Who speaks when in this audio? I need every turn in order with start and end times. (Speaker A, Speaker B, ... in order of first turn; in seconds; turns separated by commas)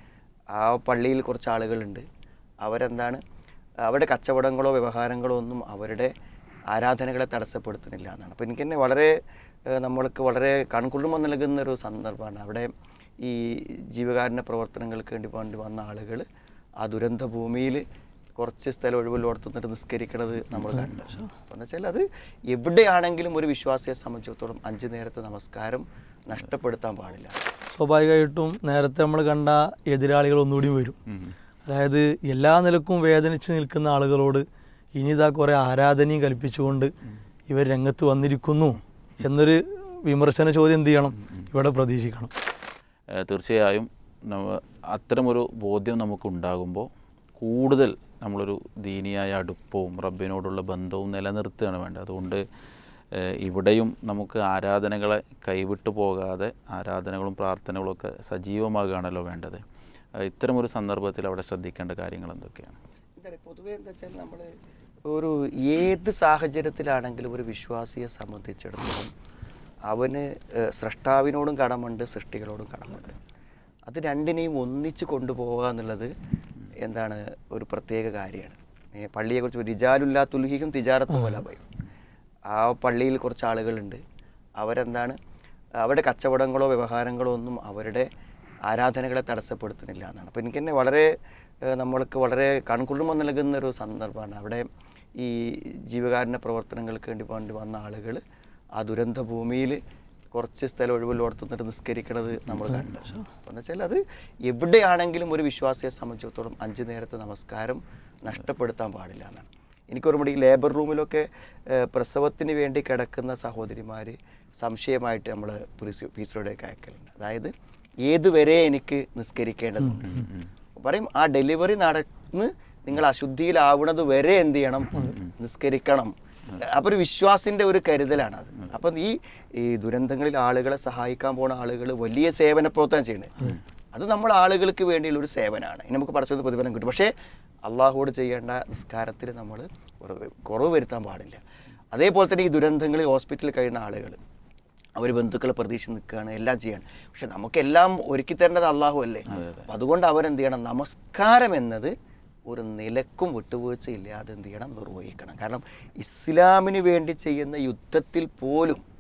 Speaker A: 0.5-2.0, Speaker A: 2.6-3.2, Speaker A: 3.9-6.1, Speaker A: 6.7-9.1, Speaker A: 9.7-12.7, Speaker A: 13.2-16.3, Speaker A: 16.8-17.8, Speaker A: 18.4-27.4, Speaker B: 27.7-31.0, Speaker C: 31.1-31.4, Speaker B: 31.7-34.4, Speaker B: 35.0-36.9, Speaker B: 37.5-42.3, Speaker C: 43.2-52.4, Speaker C: 53.2-59.6, Speaker C: 60.2-62.8, Speaker A: 63.2-64.5, Speaker A: 65.1-69.1, Speaker A: 69.9-73.2, Speaker A: 73.9-76.1, Speaker A: 76.8-81.7, Speaker A: 82.5-84.0, Speaker A: 84.6-85.2, Speaker A: 85.8-88.1, Speaker A: 88.7-91.1, Speaker A: 91.7-94.7, Speaker A: 95.2-98.2, Speaker A: 98.8-99.8, Speaker A: 100.3-117.5, Speaker A: 118.0-137.1, Speaker C: 120.0-120.5, Speaker A: 137.7-141.4, Speaker A: 141.9-144.2, Speaker A: 145.0-151.9, Speaker C: 149.3-149.7, Speaker A: 152.5-158.8